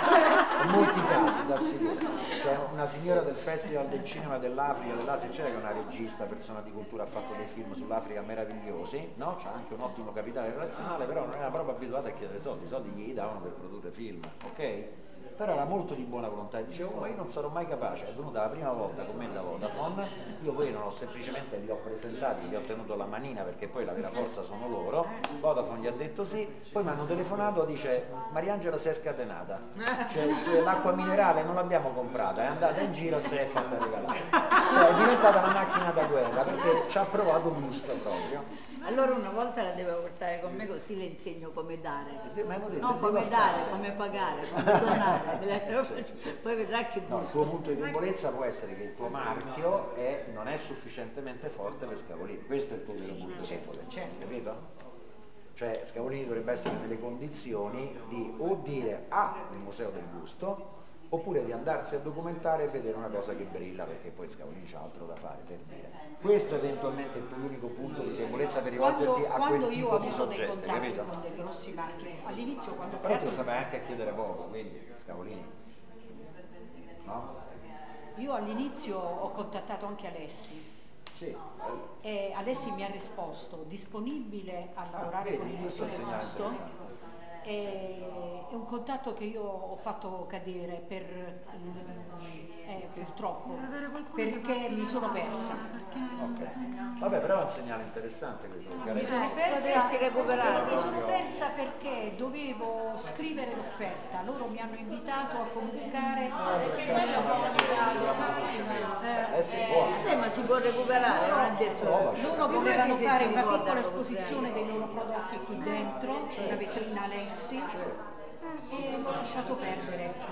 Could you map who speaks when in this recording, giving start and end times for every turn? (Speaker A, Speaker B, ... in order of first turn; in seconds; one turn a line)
Speaker A: 0.4-38.5
Speaker B: 38.8-42.3
Speaker A: 42.2-43.9
Speaker B: 42.8-48.0
Speaker A: 44.5-46.4
Speaker A: 47.1-54.6
Speaker B: 53.1-53.7
Speaker A: 55.5-71.1
Speaker C: 68.8-73.6
Speaker A: 73.0-75.5
Speaker A: 77.0-77.3
Speaker C: 78.2-80.6
Speaker A: 81.1-81.8
Speaker C: 82.0-86.6
Speaker A: 85.0-86.8
Speaker C: 87.4-95.7
Speaker A: 96.2-99.3
Speaker C: 98.9-106.8
Speaker B: 99.2-100.9
Speaker A: 100.2-101.2
Speaker A: 106.4-110.1
Speaker B: 109.0-109.3
Speaker B: 109.9-115.0
Speaker C: 110.9-111.6
Speaker A: 111.8-112.8
Speaker C: 112.2-117.7
Speaker A: 116.3-116.6
Speaker A: 117.7-118.0
Speaker C: 118.7-120.2